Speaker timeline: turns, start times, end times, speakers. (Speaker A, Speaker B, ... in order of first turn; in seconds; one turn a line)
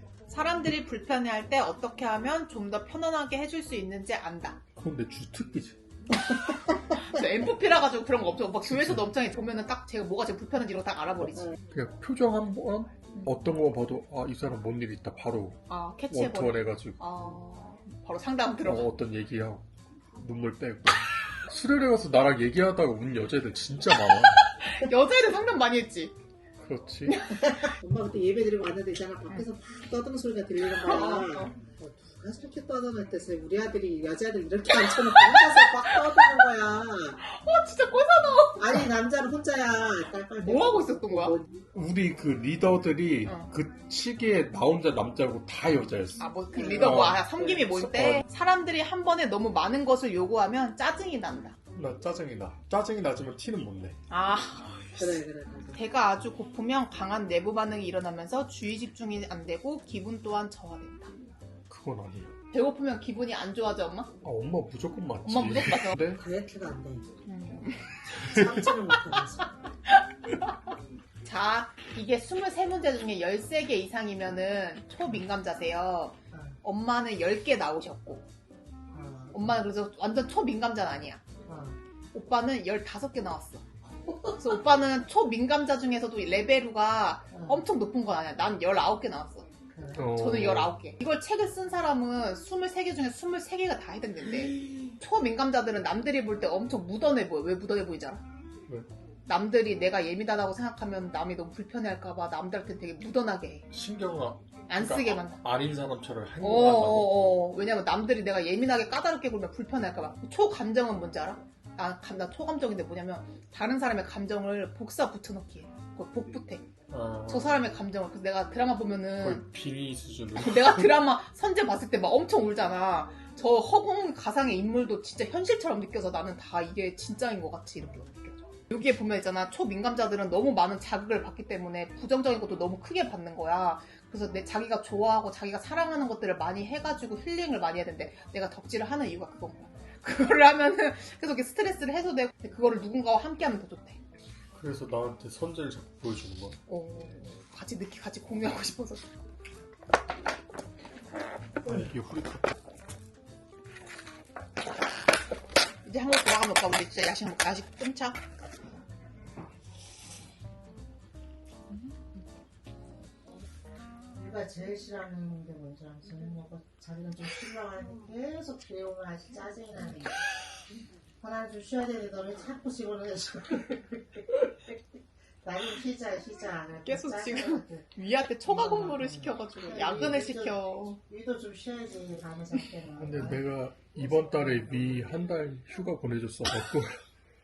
Speaker A: 0.3-4.6
Speaker B: 4.8-5.8
Speaker A: 6.9-11.6
Speaker B: 8.7-9.1
Speaker B: 11.7-17.0
Speaker A: 15.7-18.9
Speaker B: 18.6-24.4
Speaker A: 24.4-26.1
Speaker B: 26.6-27.2
Speaker A: 27.1-27.6
Speaker C: 27.6-37.2
Speaker A: 30.8-31.6
Speaker A: 34.7-36.5
Speaker A: 37.2-38.9
Speaker C: 38.6-41.6
Speaker A: 40.4-41.4
Speaker B: 41.7-48.3
Speaker A: 43.3-43.5
Speaker A: 46.2-51.6
Speaker C: 46.5-47.6
Speaker B: 51.7-54.0
Speaker A: 54.1-55.2
Speaker C: 55.0-55.8
Speaker A: 55.7-61.2
Speaker B: 61.7-62.3
Speaker A: 62.5-64.1
Speaker B: 64.2-66.2
Speaker A: 65.2-66.0
Speaker C: 66.1-67.1
Speaker A: 67.3-68.2
Speaker C: 68.1-69.5
Speaker A: 69.9-70.5
Speaker A: 71.2-78.3
Speaker C: 76.3-76.6
Speaker C: 78.9-79.6
Speaker A: 79.3-81.2
Speaker C: 81.5-81.8
Speaker A: 82.1-83.7
Speaker C: 84.1-84.3
Speaker A: 84.3-89.5
Speaker C: 87.3-87.7
Speaker C: 89.7-90.0
Speaker B: 89.9-90.8
Speaker A: 90.0-98.2
Speaker A: 99.3-103.7
Speaker B: 103.7-107.4
Speaker A: 104.7-105.4
Speaker A: 106.4-116.7
Speaker B: 116.9-117.6
Speaker A: 117.3-119.5
Speaker B: 119.2-121.0
Speaker A: 120.4-144.0
Speaker B: 144.5-146.6
Speaker A: 146.7-149.1
Speaker B: 151.6-152.6
Speaker A: 155.8-158.2
Speaker C: 164.2-170.3
Speaker C: 171.2-177.9
Speaker A: 176.8-181.0
Speaker C: 178.4-183.4
Speaker B: 183.0-187.0